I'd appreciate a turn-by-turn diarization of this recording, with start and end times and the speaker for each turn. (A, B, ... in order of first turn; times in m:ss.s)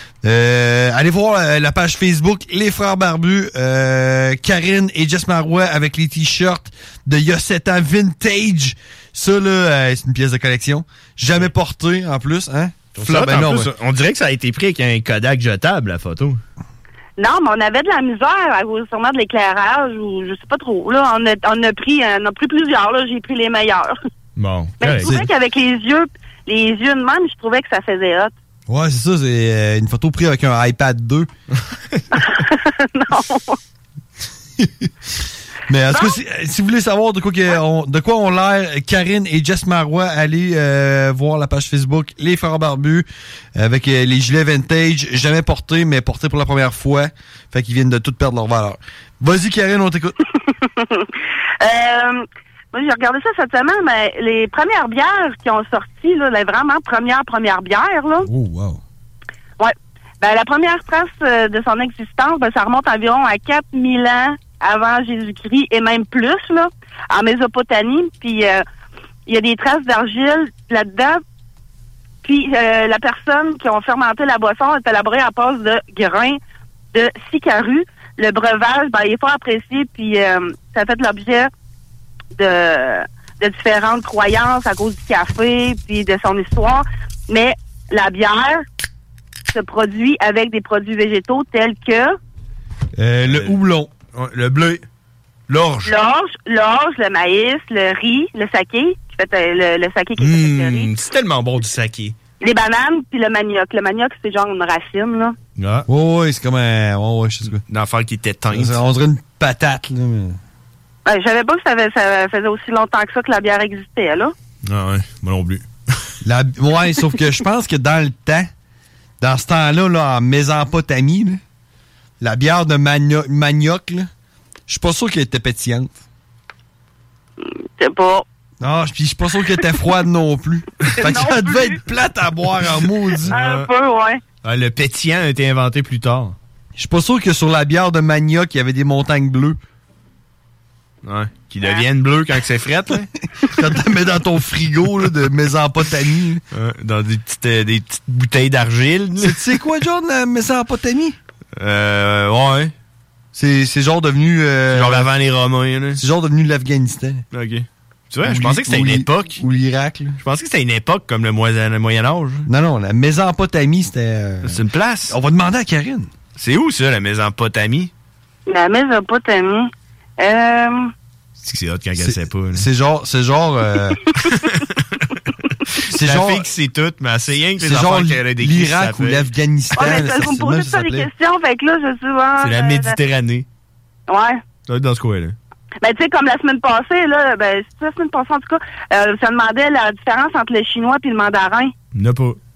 0:00.2-0:13.7 A
0:13.0-0:16.4 B
0:17.2-0:24.0 C
0:24.4-0:25.2 B
0:24.8-0:28.3 C
0:25.0-0:25.3 A
0:28.7-0:31.3 A
0:32.2-0:33.6 C
0:34.6-0:34.9 A
0:35.7-0:50.2 A
0:50.5-0:58.3 C
0:58.2-0:58.8 A
0:59.6-1:08.6 C
1:09.3-1:11.2 C
1:12.2-1:16.4 C
1:16.9-1:21.5 C
1:22.4-1:28.6 C
1:29.5-1:32.2 C
1:33.0-1:33.9 A
1:33.3-1:33.6 B
1:34.1-1:34.8 B
1:35.5-1:36.0 B
1:35.8-1:40.9 C
1:40.2-1:42.2 B
1:42.4-1:45.4 C
1:45.6-1:45.9 B
1:45.9-1:47.6 A
1:47.7-1:48.8 B
1:48.5-1:50.4 A
1:51.1-1:54.3 C
1:54.6-1:55.7 B
1:56.2-1:58.5 A
1:59.2-2:01.4 A
2:02.2-2:04.1 A
2:04.7-2:06.0 A
2:07.4-2:08.2 C
2:08.6-2:13.4 A
2:11.0-2:11.8 C
2:13.3-2:13.7 B
2:13.3-2:14.2 C
2:14.4-2:16.4 B
2:16.8-2:19.6 A
2:21.0-2:23.1 B
2:23.5-2:26.4 A
2:26.5-2:29.4 B
2:29.2-2:31.2 A
2:31.6-2:32.7 B
2:33.3-2:35.1 A
2:34.7-2:36.0 B
2:36.0-2:37.2 A
2:37.3-2:39.4 B
2:38.2-2:40.2 A
2:40.2-2:42.5 B
2:42.5-2:46.1 A
2:44.4-2:45.2 B
2:46.4-2:47.9 B
2:48.5-2:50.9 C
2:51.4-2:52.7 B
2:52.0-2:54.0 A
2:54.3-2:55.0 B
2:55.9-2:56.5 A
2:55.9-2:59.2 B
2:57.6-3:01.1 A
2:59.8-3:03.0 C
3:02.4-3:03.4 B
3:04.1-3:04.4 C
3:04.7-3:05.4 B
3:05.8-3:11.7 C
3:11.9-3:12.4 B